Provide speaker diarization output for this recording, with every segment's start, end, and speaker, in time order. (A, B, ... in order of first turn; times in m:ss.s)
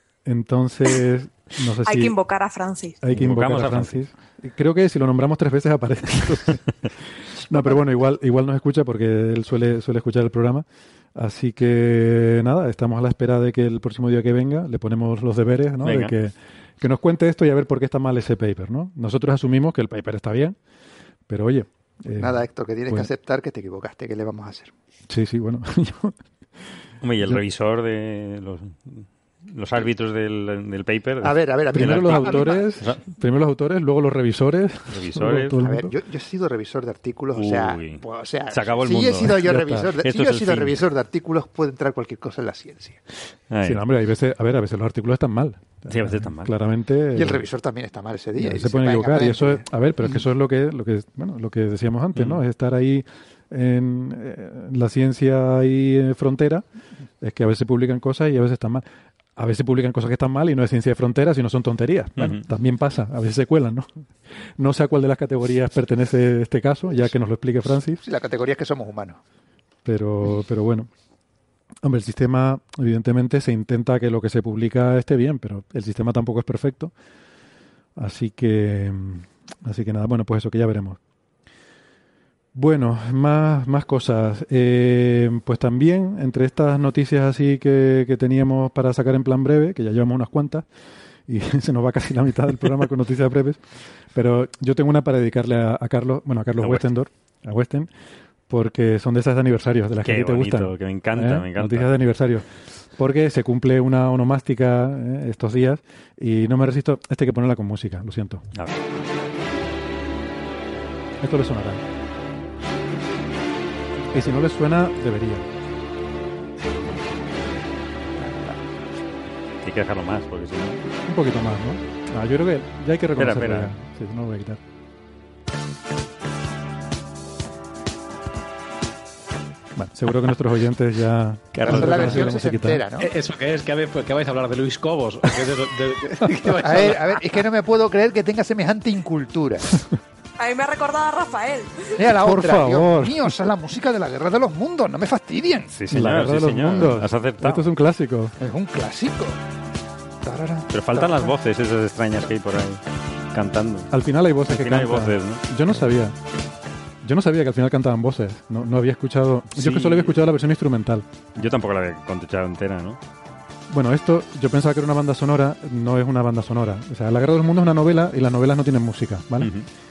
0:00.2-0:02.1 A
0:01.8-0:03.0 B
0:03.0-0:06.6 A
0:03.1-0:04.0 C
0:07.5-0:20.6 A
0:15.8-0:16.1 C
0:21.3-0:23.1 A
0:22.1-0:24.7 D
0:25.1-0:26.2 A
0:27.0-0:33.0 C
0:31.2-0:32.7 D
0:31.7-0:35.9 A
0:34.9-0:35.6 C
0:35.6-0:43.0 D
0:37.3-0:40.8 C
0:39.4-0:39.9 A
0:43.5-0:43.8 C
0:43.6-0:47.4 A
0:45.9-0:46.5 C
0:47.1-0:49.6 D
0:48.4-0:56.6 A
0:52.1-0:52.4 C
0:57.2-0:58.8 A
0:59.4-1:03.9 A
1:02.2-1:02.4 C
1:04.6-1:08.0 A
1:08.0-1:09.2 D
1:09.8-1:10.9 A
1:11.8-1:16.9 A
1:18.0-1:21.0 A
1:22.5-1:30.7 A
1:31.3-1:33.6 A
1:34.1-1:37.9 A
1:36.6-1:36.8 C
1:38.5-1:48.4 A
1:40.0-1:41.9 C
1:51.2-1:51.8 A
1:54.1-1:55.4 A
1:58.2-1:58.5 D
1:59.6-2:00.8 C
2:01.0-2:04.6 A
2:03.2-2:03.7 C
2:09.7-2:12.8 A
2:11.5-2:12.3 C
2:11.6-2:13.1 D
2:13.0-2:17.2 E
2:16.6-2:19.7 D
2:20.4-2:22.0 B
2:22.0-2:25.7 D
2:22.1-2:23.3 A
2:25.7-2:27.6 C
2:25.9-2:28.3 A
2:28.4-2:29.4 D
2:30.2-2:31.3 D
2:30.7-2:32.8 C
2:33.3-2:33.9 C
2:33.9-2:36.2 A
2:34.5-2:35.4 C
2:37.0-2:41.1 A
2:39.5-2:40.2 C
2:41.4-2:43.0 C
2:43.7-2:49.5 A
2:49.4-2:49.7 C